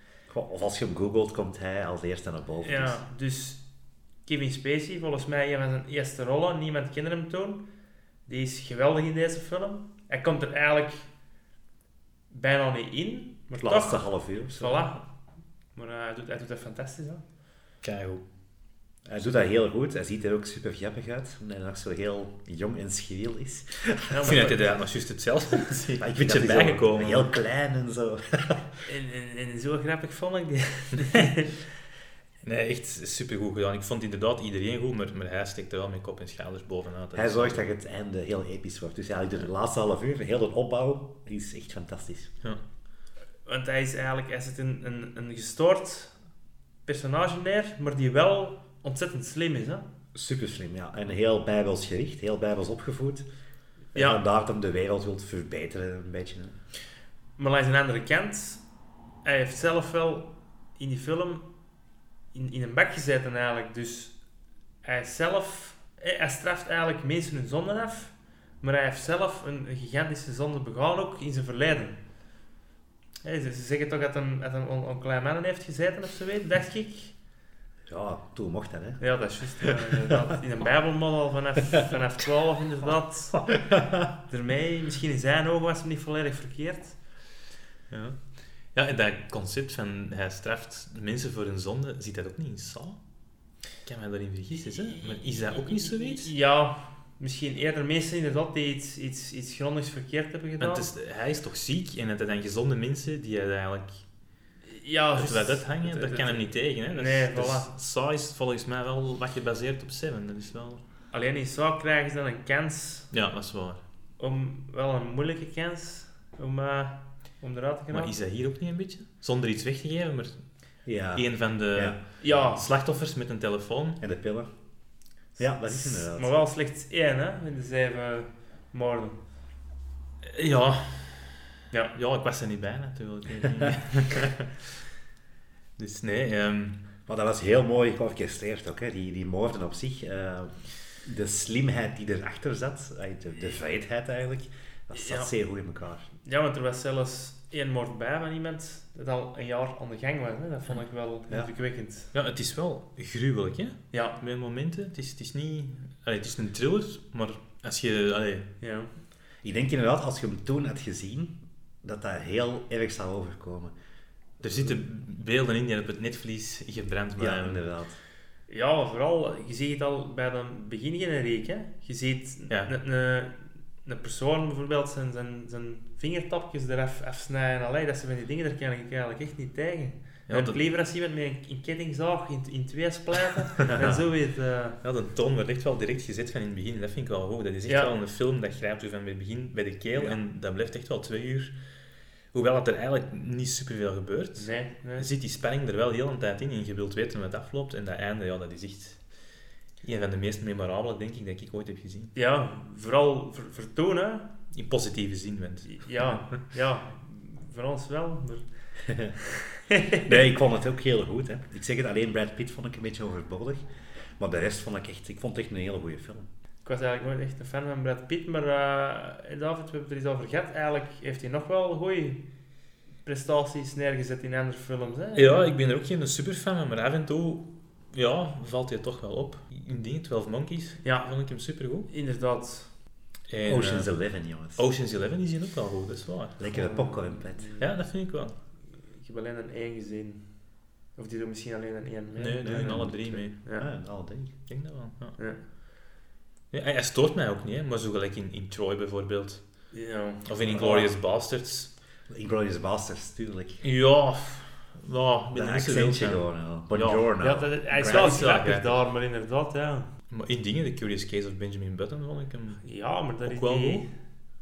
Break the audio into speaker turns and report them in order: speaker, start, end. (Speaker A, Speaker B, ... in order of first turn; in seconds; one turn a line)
Speaker A: 0.3-3.0
Speaker B: 2.6-3.7
Speaker B: 4.2-7.7
Speaker B: 8.2-11.1
Speaker B: 12.3-15.1
Speaker A: 13.6-14.9
Speaker B: 15.7-17.2
Speaker C: 17.8-18.2
Speaker A: 19.0-24.4
Speaker B: 24.1-24.7
Speaker C: 24.2-27.3
Speaker A: 26.0-28.6
Speaker B: 28.9-31.5
Speaker C: 32.4-37.7
Speaker A: 37.1-42.3
Speaker B: 43.4-46.2
Speaker B: 46.8-49.9
Speaker A: 50.1-53.3
Speaker B: 53.9-54.2
Speaker A: 53.9-56.5
Speaker B: 57.4-58.6
Speaker B: 59.2-61.5
Speaker B: 62.3-64.2
Speaker B: 64.8-72.0
Speaker B: 73.2-77.1
Speaker A: 77.9-79.0
Speaker B: 79.0-83.6
Speaker B: 84.3-87.0
Speaker C: 87.9-93.0
Speaker C: 93.8-96.3
Speaker B: 94.9-100.8
Speaker C: 100.6-104.0
Speaker B: 104.6-107.7
Speaker C: 105.2-110.8
Speaker B: 111.1-113.1
Speaker C: 113.1-113.8
Speaker B: 114.2-118.1
Speaker C: 117.9-124.0
Speaker A: 120.8-122.0
Speaker B: 122.2-122.6
Speaker A: 124.0-124.5
Speaker A: 125.3-126.3
Speaker B: 125.3-129.2
Speaker C: 130.3-131.4
Speaker C: 131.9-134.6
Speaker C: 135.8-136.8
Speaker A: 137.1-146.1
Speaker B: 144.9-145.3
Speaker B: 146.2-152.1
Speaker C: 152.1-158.5
Speaker B: 158.6-158.9
Speaker A: 159.4-163.7
Speaker C: 164.4-167.7
Speaker A: 167.2-168.0
Speaker B: 168.5-184.8
Speaker C: 180.3-180.6
Speaker C: 184.8-191.5
Speaker C: 192.3-199.3
Speaker B: 194.4-195.1
Speaker C: 199.8-202.1
Speaker B: 202.1-204.3
Speaker C: 204.5-206.2
Speaker B: 205.7-208.4
Speaker A: 208.9-209.1
Speaker B: 209.2-210.1
Speaker A: 210.0-213.6
Speaker A: 214.2-216.2
Speaker B: 216.6-222.2
Speaker B: 223.0-225.5
Speaker C: 225.1-231.9
Speaker B: 230.8-231.1
Speaker B: 231.9-232.7
Speaker C: 233.3-234.0
Speaker A: 233.4-234.6
Speaker C: 234.5-236.4
Speaker A: 236.4-237.5
Speaker B: 236.5-237.7
Speaker C: 237.6-238.3
Speaker B: 238.8-243.7
Speaker C: 242.2-243.4
Speaker A: 242.5-244.3
Speaker C: 244.5-245.2
Speaker B: 245.2-245.4
Speaker C: 246.5-251.7
Speaker B: 249.7-250.9
Speaker A: 252.1-253.6
Speaker C: 253.6-257.1
Speaker A: 255.3-258.2
Speaker B: 257.2-259.9
Speaker C: 257.6-258.7
Speaker C: 260.1-263.9
Speaker B: 262.6-263.9